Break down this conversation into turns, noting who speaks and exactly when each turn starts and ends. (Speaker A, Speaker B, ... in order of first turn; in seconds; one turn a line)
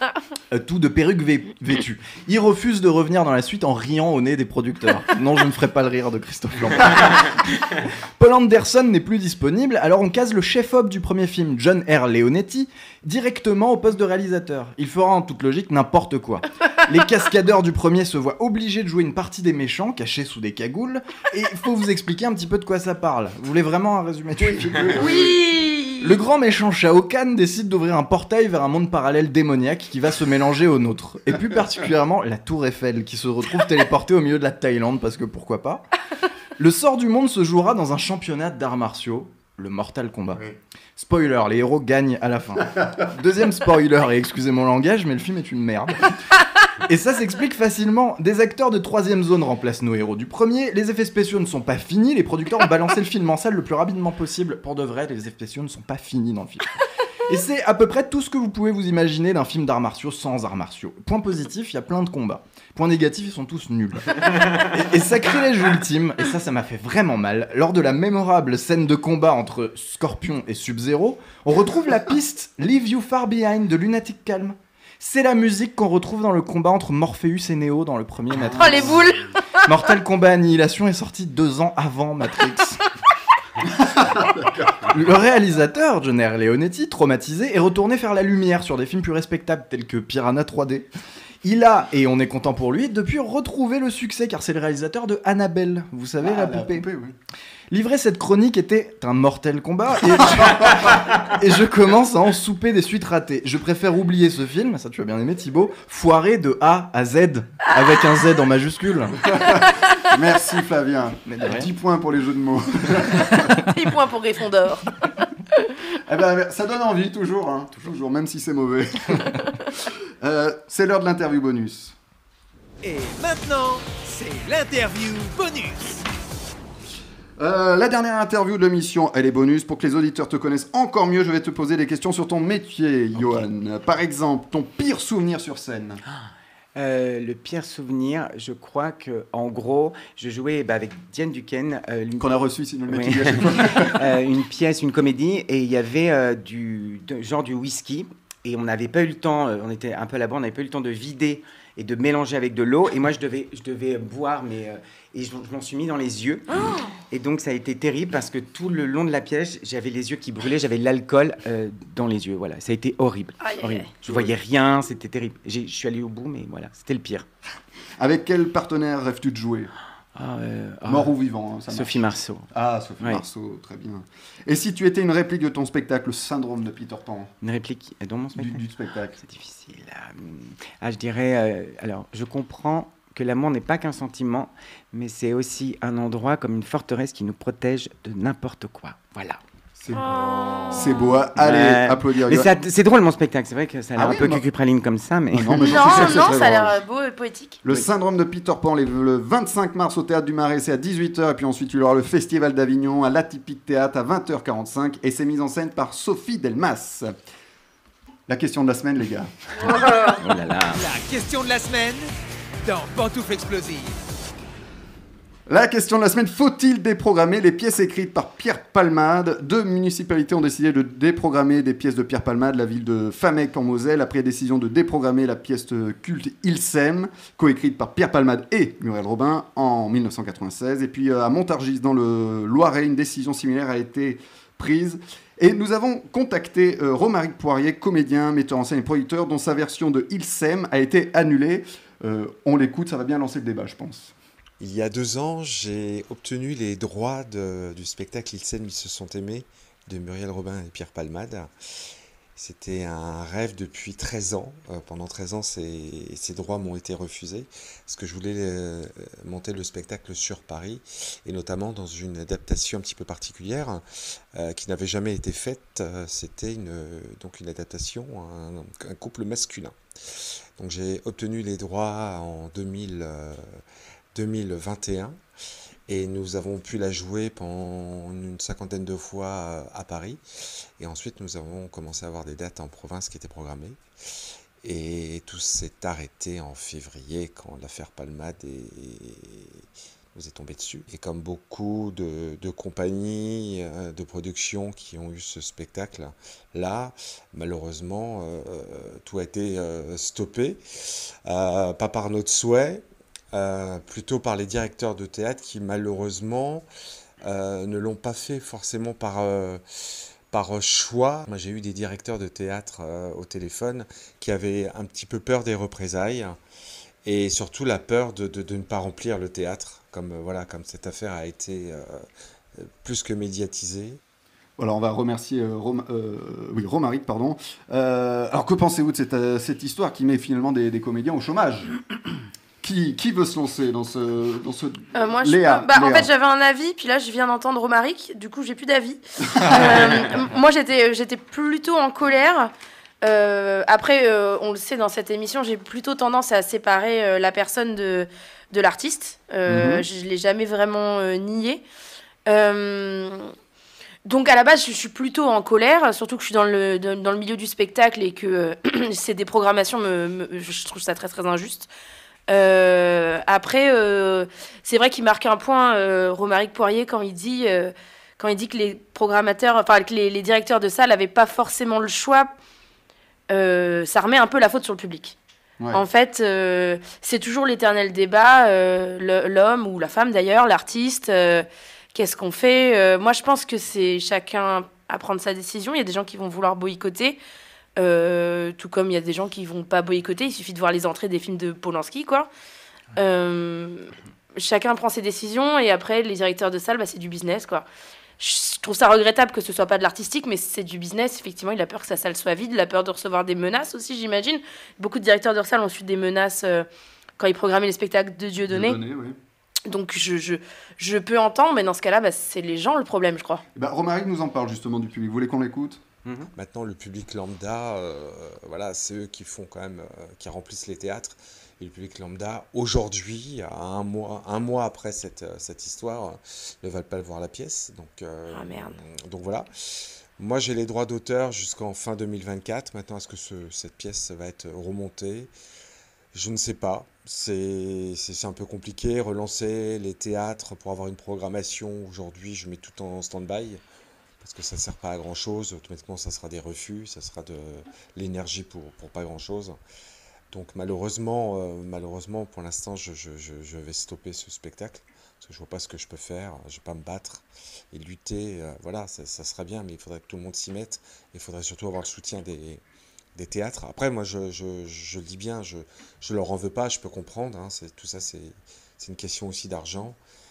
Speaker A: 0.5-25.0
Speaker B: 24.4-25.4
Speaker C: 24.9-26.2
Speaker A: 26.0-35.8
Speaker A: 36.6-40.4
Speaker A: 41.0-46.0
Speaker A: 46.9-56.7
Speaker A: 57.3-79.1
Speaker C: 78.6-79.6
Speaker A: 79.6-82.8
Speaker B: 83.6-84.9
Speaker A: 84.9-90.9
Speaker A: 91.4-96.8
Speaker B: 96.2-97.2
Speaker A: 97.7-109.2
Speaker B: 100.3-100.9
Speaker B: 109.2-113.6
Speaker A: 111.2-111.7
Speaker C: 113.4-114.9
Speaker B: 116.0-122.0
Speaker D: 122.8-126.0
Speaker B: 127.4-136.0
Speaker E: 136.8-167.3
Speaker B: 142.2-144.1
Speaker C: 163.4-163.9
Speaker B: 164.0-164.3
Speaker B: 168.0-169.7
Speaker E: 170.2-171.1
Speaker B: 170.8-177.3
Speaker E: 171.7-172.5
Speaker E: 177.4-178.6
Speaker B: 178.3-179.2
Speaker E: 179.2-189.4
Speaker B: 189.8-190.1
Speaker B: 190.7-192.5
Speaker E: 191.4-196.3
Speaker B: 193.9-194.4
Speaker B: 195.3-196.8
Speaker C: 195.6-197.6
Speaker B: 197.6-207.1
Speaker B: 208.3-209.8
Speaker E: 210.1-210.8
Speaker D: 210.7-212.1
Speaker D: 212.6-214.0
Speaker B: 215.5-244.1
Speaker F: 244.6-251.5
Speaker F: 252.3-263.8
Speaker F: 264.4-269.8
Speaker F: 270.6-273.4
Speaker F: 274.1-275.1
Speaker F: 275.9-280.2
Speaker F: 280.8-283.8
Speaker F: 284.6-289.6
Speaker F: 290.1-300.6
Speaker F: 301.2-306.6
Speaker F: 307.2-309.6
Speaker F: 310.3-316.4
Speaker F: 317.0-322.0
Speaker F: 322.6-324.0
Speaker B: 324.6-331.8
Speaker B: 332.6-336.1
Speaker C: 334.9-351.6
Speaker B: 349.5-349.8
Speaker C: 352.2-353.3
Speaker C: 354.0-361.7
Speaker C: 362.3-372.3
Speaker C: 373.3-375.1
Speaker C: 375.7-387.2
Speaker C: 387.8-392.3
Speaker C: 392.9-397.6
Speaker C: 398.2-406.7
Speaker C: 407.2-408.8
Speaker B: 408.5-409.2
Speaker C: 409.7-413.4
Speaker B: 413.5-415.8
Speaker E: 416.0-416.3
Speaker F: 416.3-429.5
Speaker C: 428.3-428.7
Speaker F: 430.2-435.3
Speaker F: 436.1-443.6
Speaker F: 444.2-449.6
Speaker F: 450.3-462.6
Speaker F: 463.1-470.0